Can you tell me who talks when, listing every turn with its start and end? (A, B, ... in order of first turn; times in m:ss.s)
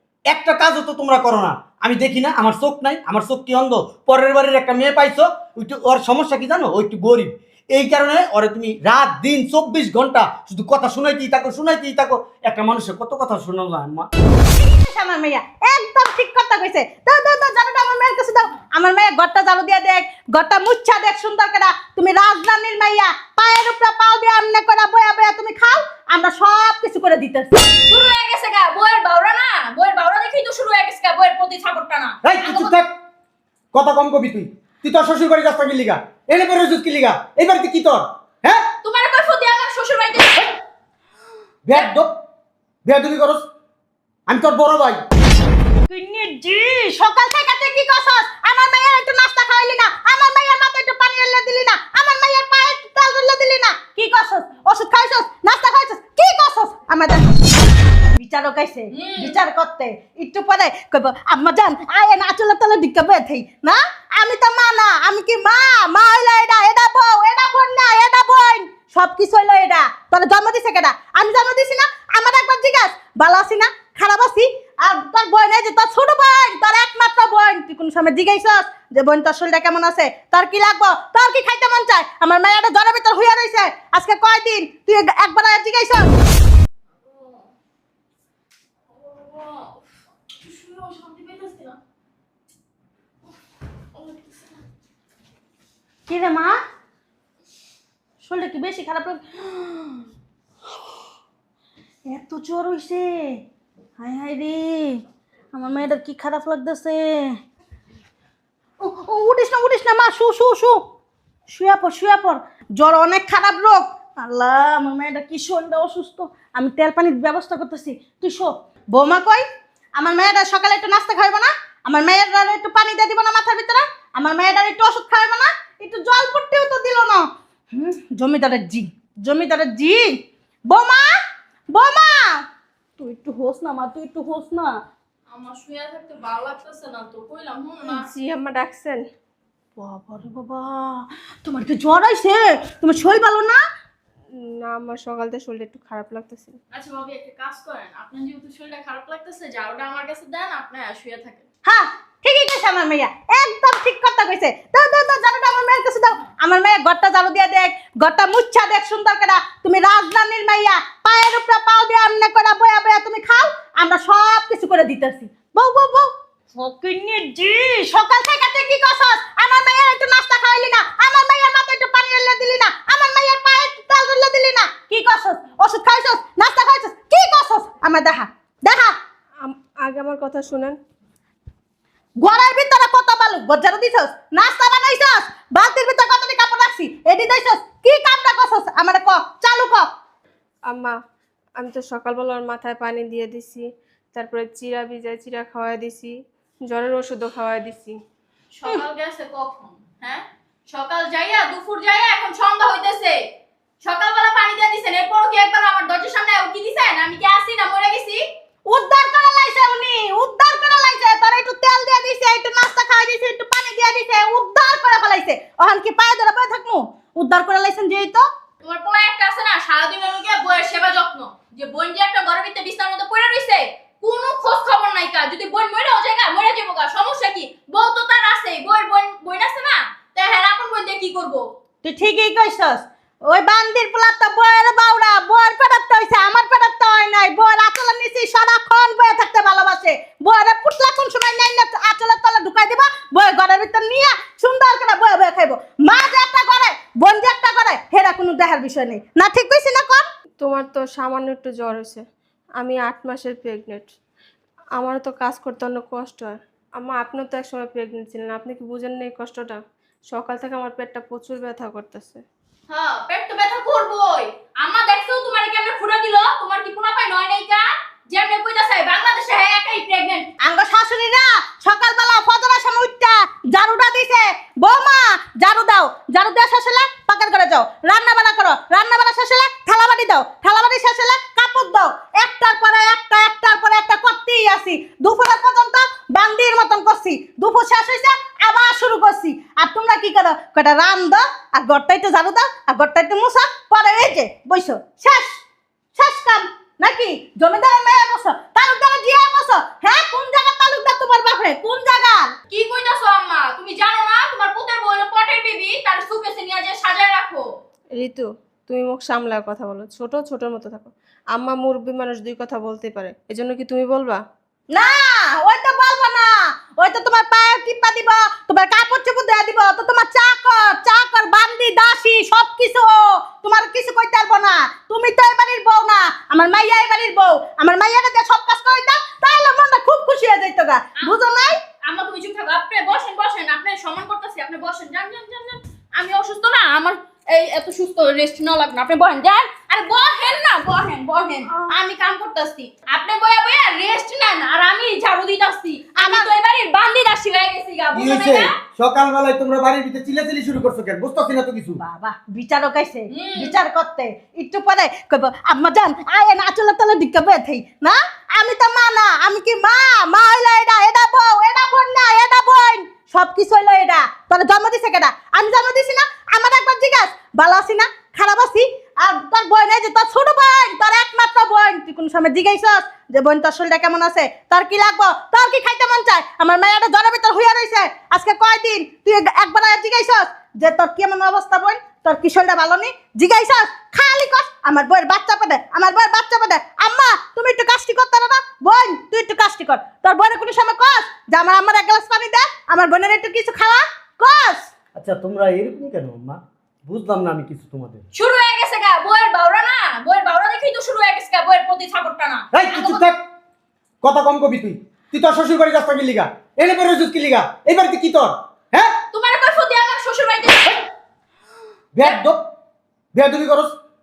0:00.3-0:14.1 A
0:14.5-0:27.6 B
0:27.8-0:32.7 C
0:32.2-0:32.9 A
0:33.7-0:38.7 A
0:38.8-0:40.4 C
0:41.6-0:42.1 A
0:42.8-0:43.4 A
0:44.3-0:45.0 A
0:45.9-0:57.3 B
0:58.1-1:26.1 B
0:58.9-0:59.4 C
1:27.0-1:27.5 C
1:28.9-1:31.8 C
1:33.9-1:34.6 C
1:36.1-1:36.6 B
1:38.2-1:40.0 B
1:42.1-1:43.3 B
1:44.0-1:45.0 B
1:45.5-1:47.3 B
1:48.8-1:50.8 B
1:51.5-1:59.4 B
2:00.0-2:10.1 B
2:10.7-2:11.1 B
2:11.7-2:12.4 B
2:13.0-2:14.7 B
2:15.3-2:18.1 C
2:17.8-2:19.0 D
2:19.8-2:23.6 B
2:24.4-2:26.6 D
2:26.7-2:31.4 C
2:31.6-2:58.9 B
2:59.4-3:00.8 D
3:02.2-3:09.9 B
3:10.7-3:11.0 D
3:11.6-3:16.1 D
3:16.6-3:18.0 D
3:18.5-3:23.1 C
3:23.8-3:28.2 C
3:28.6-3:38.2 B
3:38.6-3:51.4 C
3:51.8-4:10.0 B
4:10.4-4:12.0 D
4:12.6-4:13.9 D
4:14.8-4:22.2 D
4:22.7-4:30.3 C
4:30.4-4:55.4 B
4:56.0-5:02.3 B
5:02.5-5:07.4 C
5:07.9-5:14.2 D
5:14.7-5:31.6 B
5:31.8-5:48.5 C
5:46.0-5:46.3 B
5:47.9-5:51.8 A
5:51.8-6:34.7 B
5:53.1-5:53.6 C
6:35.0-6:38.0 A
6:38.1-6:43.0 C
6:42.5-6:43.2 A
6:44.0-6:49.0 A
6:49.1-6:50.7 C
6:52.0-6:52.4 A
6:53.1-6:53.7 A